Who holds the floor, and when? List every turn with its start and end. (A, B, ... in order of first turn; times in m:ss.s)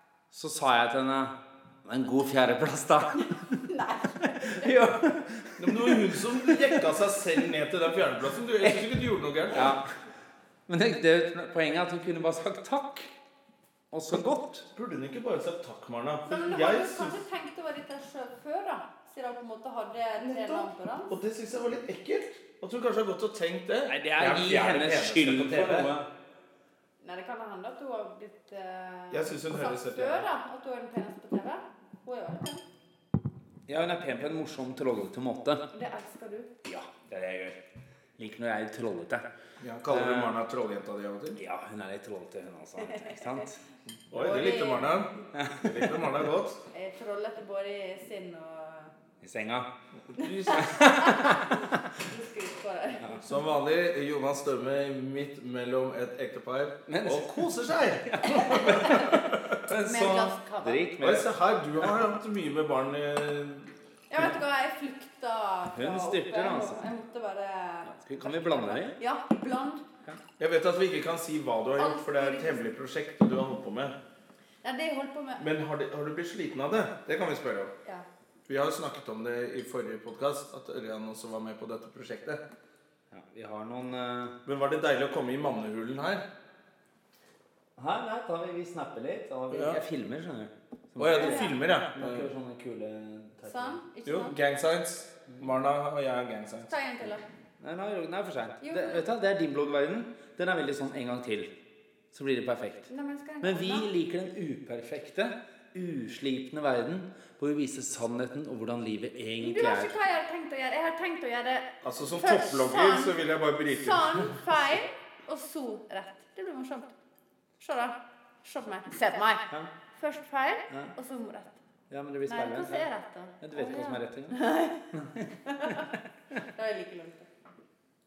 0:00.3-0:03.3 A
0:03.2-0:04.8 B
0:04.4-0:06.5 A
0:05.6-0:09.7 C
0:09.5-0:09.9 A
0:10.7-0:13.1 A
0:13.9-0:14.7 A
0:14.7-0:17.2 C
0:16.3-0:21.1 B
0:20.2-0:26.0 C
0:23.9-0:26.1 A
0:27.0-0:32.6 B
0:29.1-0:30.3 C
0:33.7-0:35.6 A
0:35.7-0:36.5 B
0:36.6-0:37.6 A
0:38.2-0:39.2 A
0:39.6-0:41.4 C
0:39.9-0:40.3 A
0:41.4-0:43.6 A
0:44.1-0:46.6 C
0:44.2-0:45.1 B
0:45.3-0:45.6 A
0:46.7-0:48.9 B
0:49.2-0:49.7 A
0:50.1-0:50.9 C
0:50.2-0:53.2 B
0:50.7-0:51.5 A
0:53.2-0:59.1 C
0:56.9-0:57.4 A
0:58.0-1:01.3 A
0:58.4-0:59.2 B
0:59.8-1:00.9 B
1:01.0-1:03.7 C
1:04.1-1:09.8 B
1:05.8-1:06.8 A
1:07.9-1:09.0 A
1:10.4-1:14.0 C
1:11.8-1:12.6 B
1:14.6-1:15.5 B
1:15.4-1:17.7 C
1:18.5-1:22.4 C
1:23.1-1:24.4 A
1:24.5-1:26.2 C
1:27.8-1:33.8 A
1:29.5-1:29.8 C
1:31.0-1:32.2 C
1:31.1-1:31.6 B
1:33.4-1:34.4 B
1:34.1-1:36.7 C
1:36.7-1:37.2 B
1:37.6-1:41.5 A
1:38.6-1:39.0 B
1:42.1-1:42.9 A
1:42.9-1:43.9 B
1:43.4-1:49.9 A
1:49.4-1:53.2 B
1:51.8-1:54.3 C
1:53.7-1:56.9 B
1:57.6-2:01.6 B
2:01.9-2:02.9 A
2:02.3-2:04.8 B
2:03.4-2:05.2 A
2:05.5-2:05.9 B
2:06.4-2:07.3 B